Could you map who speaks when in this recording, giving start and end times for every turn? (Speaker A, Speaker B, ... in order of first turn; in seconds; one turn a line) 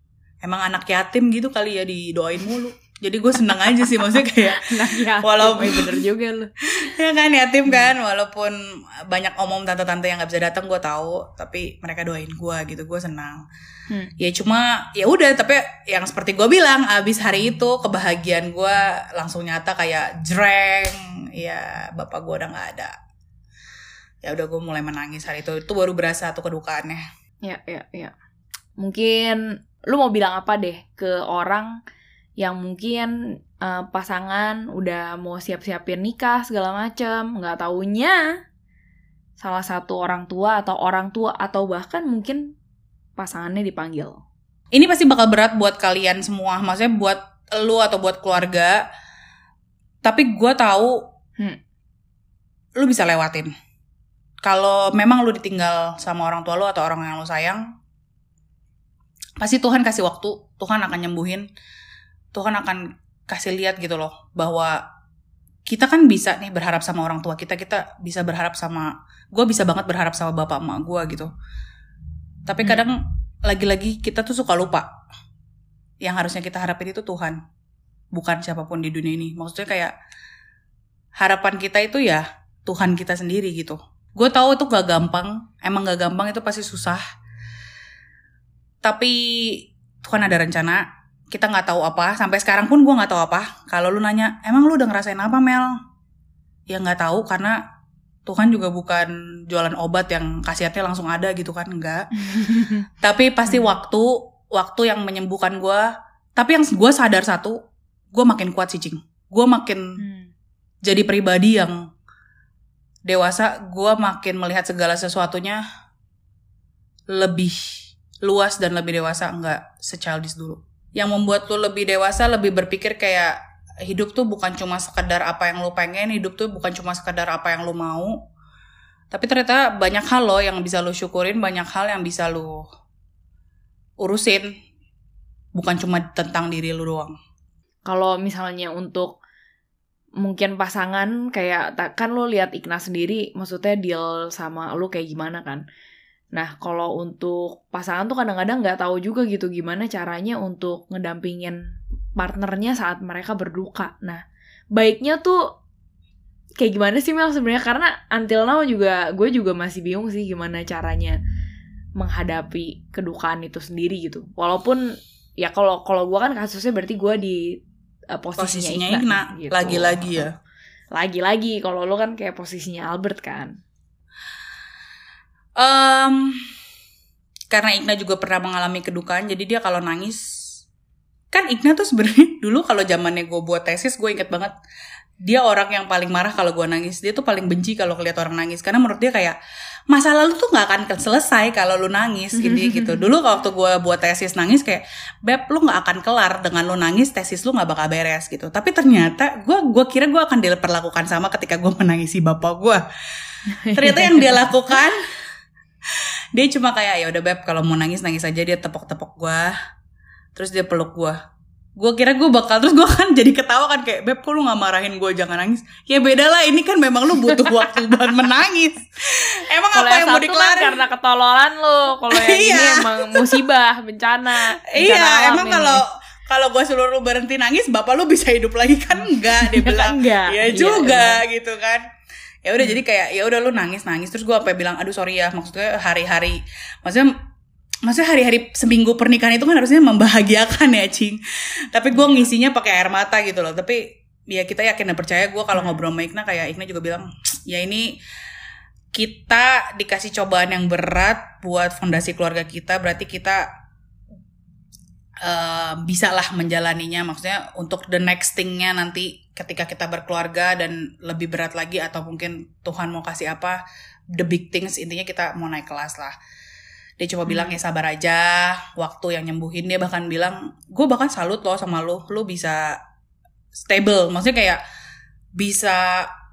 Speaker A: 0.4-6.0
Speaker B: 4.4-6.5
Speaker A: 6.8-13.4
Speaker B: 7.7-7.9
Speaker A: 14.2-22.9
Speaker A: 24.2-27.0
Speaker B: 27.4-28.1
Speaker B: 28.8-31.7
Speaker B: 32.4-38.2
Speaker B: 39.4-42.5
Speaker B: 43.2-44.2
Speaker A: 44.7-48.8
Speaker A: 50.0-51.0
Speaker A: 52.8-53.5
Speaker A: 54.4-57.6
Speaker A: 59.4-61.5
Speaker A: 62.3-64.8
Speaker A: 65.7-71.3
Speaker A: 72.5-74.9
Speaker A: 76.0-77.4
Speaker A: 78.1-79.9
Speaker A: 81.2-87.0
Speaker A: 88.8-95.8
Speaker A: 96.7-97.6
Speaker A: 98.2-102.1
Speaker B: 102.3-102.8
Speaker A: 103.0-107.6
Speaker B: 103.5-103.7
Speaker A: 108.1-109.8
Speaker B: 110.0-110.3
Speaker A: 110.8-111.8
Speaker A: 113.0-115.6
Speaker A: 117.1-128.1
Speaker A: 129.1-132.6
Speaker A: 134.0-134.5
Speaker A: 135.6-137.2
Speaker B: 137.9-139.2
Speaker B: 140.2-145.6
Speaker B: 146.3-151.6
Speaker B: 152.2-154.2
Speaker B: 154.8-155.4
Speaker B: 156.6-161.2
Speaker B: 162.0-164.8
Speaker B: 165.4-167.6
Speaker B: 168.1-170.3
Speaker A: 168.4-170.3
Speaker B: 170.9-173.5
Speaker A: 175.6-176.4
Speaker A: 177.5-180.6
Speaker A: 181.3-184.5
Speaker A: 185.2-189.3
Speaker A: 189.9-202.8
Speaker B: 192.4-193.1
Speaker B: 203.5-204.4
Speaker A: 203.7-205.0
Speaker A: 206.3-209.5
Speaker A: 210.3-211.2
Speaker A: 211.8-220.8
Speaker B: 219.7-225.8
Speaker A: 222.1-223.4
Speaker A: 224.7-231.8
Speaker B: 229.3-231.2
Speaker A: 232.4-237.1
Speaker A: 237.8-241.2
Speaker A: 241.7-247.9
Speaker B: 241.9-242.3
Speaker B: 245.5-245.8
Speaker A: 248.9-253.4
Speaker A: 255.2-263.6
Speaker A: 264.2-266.1
Speaker A: 267.0-272.7
Speaker B: 267.3-267.6
Speaker A: 273.7-274.6
Speaker A: 275.4-276.1